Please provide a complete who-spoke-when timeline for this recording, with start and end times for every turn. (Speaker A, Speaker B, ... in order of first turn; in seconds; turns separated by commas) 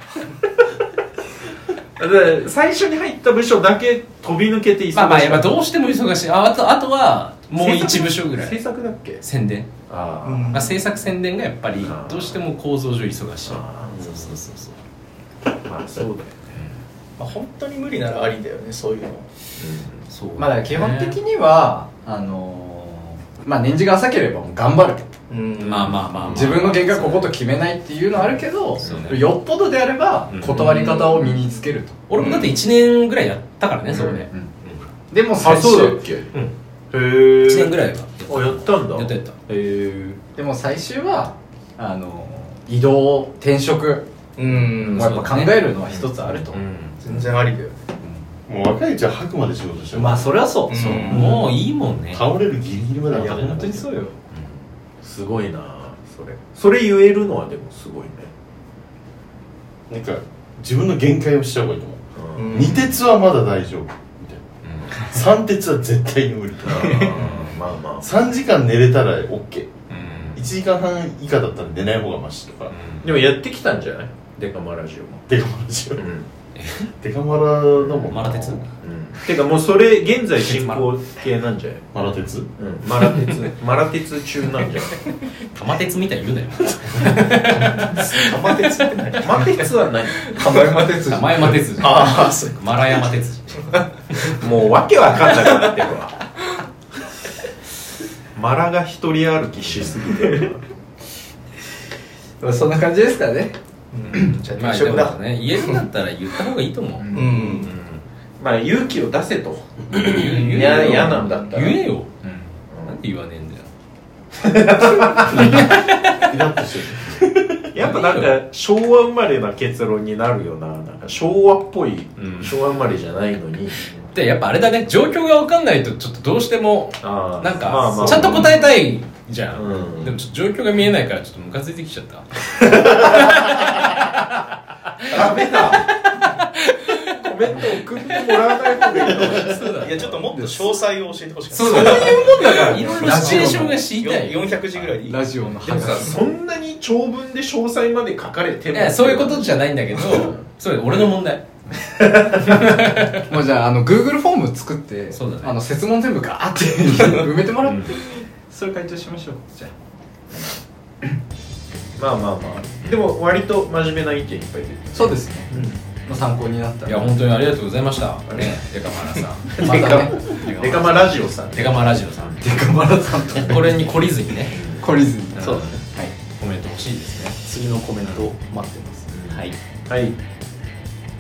Speaker A: 2.0-5.5, Speaker B: 4.9-8.6, Speaker A: 7.5-9.2, Speaker B: 9.2-9.7, Speaker A: 9.9-10.8, Speaker C: 10.2-10.9, Speaker B: 10.5-14.8, Speaker A: 11.8-12.4, Speaker A: 13.4-14.2, Speaker A: 15.6-16.4, Speaker C: 17.2-19.3, Speaker A: 19.6-20.0, Speaker B: 20.1-21.2, Speaker D: 20.4-25.1, Speaker C: 25.3-26.1, Speaker B: 25.6-27.3, Speaker D: 26.3-32.0, Speaker A: 28.8-29.2, Speaker B: 28.8-29.3, Speaker B: 30.3-31.1, Speaker A: 30.7-31.2, Speaker B: 32.1-34.8, Speaker A: 32.1-32.6, Speaker A: 33.9-34.2, Speaker D: 35.1-36.0, Speaker A: 35.4-36.3, Speaker A: 36.9-39.1, Speaker B: 37.4-39.4, Speaker D: 39.5-46.6, Speaker C: 44.4-45.0, Speaker B: 44.8-47.0, Speaker C: 47.0-47.8, Speaker E: 48.5-50.4, Speaker D: 49.9-51.4, Speaker C: 50.7-51.3, Speaker B: 50.8-52.2, Speaker E: 51.0-51.5, Speaker E: 52.1-54.0, Speaker D: 53.1-54.1, Speaker B: 54.3-54.6, Speaker A: 55.0-58.3, Speaker E: 59.9-67.4, Speaker A: 62.1-62.6, Speaker C: 62.4-62.9, Speaker B: 64.6-65.0, Speaker A: 66.6-68.1, Speaker D: 66.8-67.1, Speaker E: 68.0-69.8, Speaker B: 69.9-70.5, Speaker E: 70.3-72.8, Speaker B: 72.7-73.3, Speaker A: 73.0-75.2, Speaker E: 75.3-76.0, Speaker A: 76.0-76.3, Speaker B: 76.5-76.9, Speaker E: 77.0-78.7, Speaker A: 77.8-78.1, Speaker B: 78.1-78.6, Speaker A: 78.8-81.8, Speaker B: 80.4-80.9, Speaker E: 81.9-82.5, Speaker A: 82.6-85.1, Speaker B: 83.0-83.3, Speaker B: 85.4-88.2, Speaker E: 87.0-87.3, Speaker C: 87.2-89.7, Speaker A: 89.2-90.4, Speaker C: 90.2-91.0, Speaker D: 90.3-92.0, Speaker B: 91.0-94.4, Speaker C: 91.8-93.0, Speaker C: 93.6-94.4, Speaker A: 94.3-96.1, Speaker A: 98.3-100.6, Speaker D: 102.4-103.5, Speaker C: 103.9-105.2, Speaker B: 104.1-108.0, Speaker D: 107.0-107.7, Speaker C: 107.1-107.7, Speaker A: 108.4-111.8, Speaker B: 109.9-112.1, Speaker C: 110.2-111.5, Speaker D: 112.2-112.5, Speaker A: 112.7-113.0, Speaker B: 112.9-113.7, Speaker A: 114.3-115.6, Speaker B: 115.1-116.4, Speaker E: 115.4-117.4, Speaker A: 117.7-124.0, Speaker B: 117.7-118.3, Speaker B: 122.2-122.6, Speaker B: 124.1-134.4, Speaker A: 127.0-128.6, Speaker A: 129.5-130.2, Speaker A: 132.7-133.5, Speaker B: 135.0-137.1, Speaker A: 135.1-135.9, Speaker A: 137.1-139.7, Speaker B: 138.9-140.4, Speaker C: 139.8-145.2, Speaker D: 140.3-140.7, Speaker B: 141.5-144.9, Speaker D: 141.6-143.8, Speaker D: 145.0-146.2, Speaker A: 145.6-150.4, Speaker B: 148.7-151.5, Speaker A: 151.9-152.6, Speaker B: 152.3-153.3, Speaker D: 153.3-159.7, Speaker B: 155.1-155.6, Speaker B: 157.6-157.9, Speaker A: 162.0-165.8, Speaker D: 164.9-165.5, Speaker D: 166.0-167.2, Speaker B: 166.8-172.4, Speaker A: 168.3-168.6, Speaker A: 169.5-172.4, Speaker D: 169.6-171.0, Speaker D: 172.4-174.0, Speaker B: 173.4-174.6, Speaker A: 174.5-174.9, Speaker D: 174.8-176.1, Speaker B: 175.3-177.5, Speaker D: 177.5-179.1, Speaker B: 178.0-178.3, Speaker A: 179.1-180.2, Speaker B: 179.3-179.6